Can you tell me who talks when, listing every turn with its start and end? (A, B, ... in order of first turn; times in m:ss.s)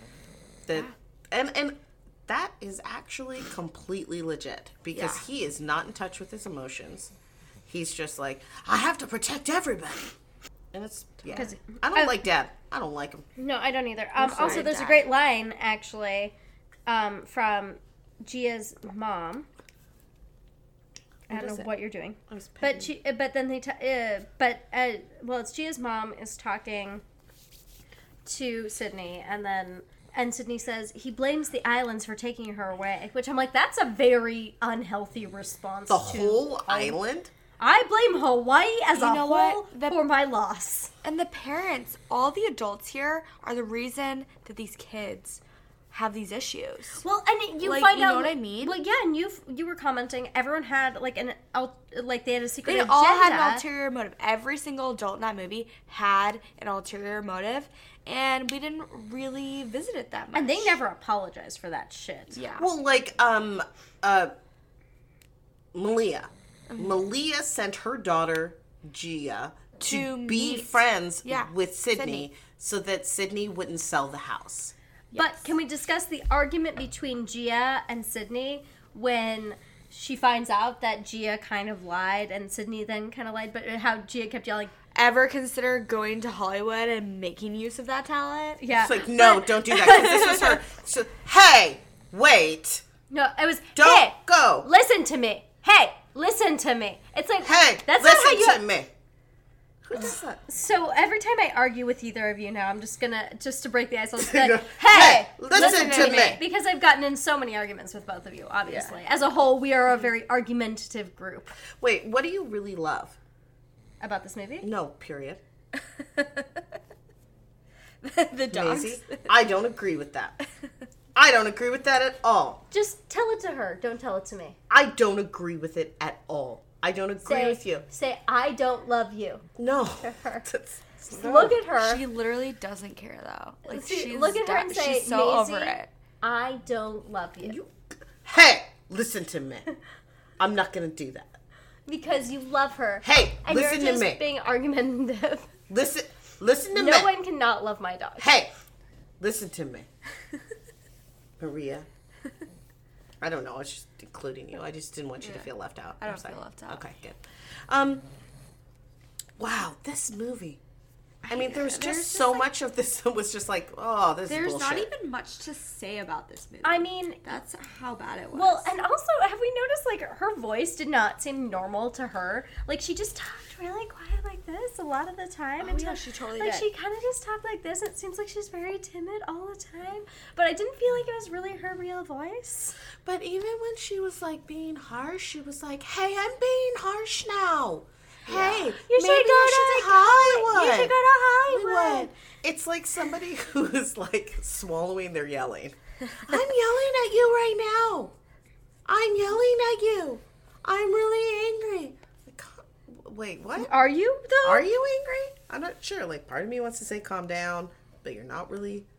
0:00.7-0:07.1 A
0:04.9-0:05.2 B
0:07.7-0:10.1 A
0:10.7-0:13.2 A
0:11.3-0:12.2 C
0:13.4-0:16.3 C
0:14.2-0:15.1 B
0:14.3-0:14.9 A
0:16.9-0:19.5 C
0:21.3-0:27.0 C
0:21.3-0:21.7 B
0:22.3-0:22.9 A
0:28.2-0:37.0 C
0:35.9-0:37.3 A
0:37.6-0:40.9 C
0:38.9-0:40.0 B
0:41.0-0:47.0 B
0:47.0-0:53.6 C
0:47.6-0:48.7 B
0:52.6-1:00.8 B
1:00.3-1:02.4 C
1:02.3-1:02.7 B
1:02.6-1:04.3 A
1:05.7-1:14.7 A
1:09.8-1:12.3 B
1:15.1-1:15.5 B
1:15.1-1:24.7 C
1:24.9-1:28.6 B
1:28.6-1:30.6 C
1:28.8-1:32.8 A
1:33.1-1:38.6 C
1:33.7-1:34.7 A
1:37.4-1:38.9 A
1:39.8-1:40.4 A
1:40.5-1:51.6 C
1:44.2-1:46.4 A
1:45.5-1:46.4 B
1:48.6-1:49.0 B
1:51.8-1:53.1 A
1:54.0-1:54.6 C
1:54.6-1:55.4 A
1:55.7-1:56.6 B
1:58.0-1:59.3 B
1:58.5-2:00.4 A
2:01.1-2:02.6 A
2:02.7-2:04.6 C
2:04.7-2:07.8 A
2:07.2-2:09.4 C
2:09.6-2:11.6 A
2:10.0-2:10.4 C
2:11.1-2:12.0 C
2:11.8-2:15.9 B
2:13.7-2:17.6 C
2:17.4-2:17.7 A
2:18.2-2:19.7 A
2:20.4-2:21.4 A
2:21.9-2:25.5 C
2:23.0-2:24.2 A
2:25.7-2:27.1 A
2:26.7-2:28.3 C
2:28.2-2:28.5 A
2:29.2-2:29.9 A
2:31.4-2:31.9 A
2:33.2-2:38.0 A
2:35.2-2:35.5 B
2:36.0-2:36.8 B
2:39.4-2:40.6 A
2:41.2-2:42.5 B
2:41.3-2:44.9 A
2:44.2-2:48.7 B
2:46.6-2:47.2 C
2:48.3-3:02.8 C
2:55.6-2:56.7 B
3:03.0-3:10.9 A
3:08.3-3:12.1 C
3:11.5-3:18.1 A
3:18.8-3:23.7 A
3:23.6-3:24.7 C
3:24.4-3:28.9 A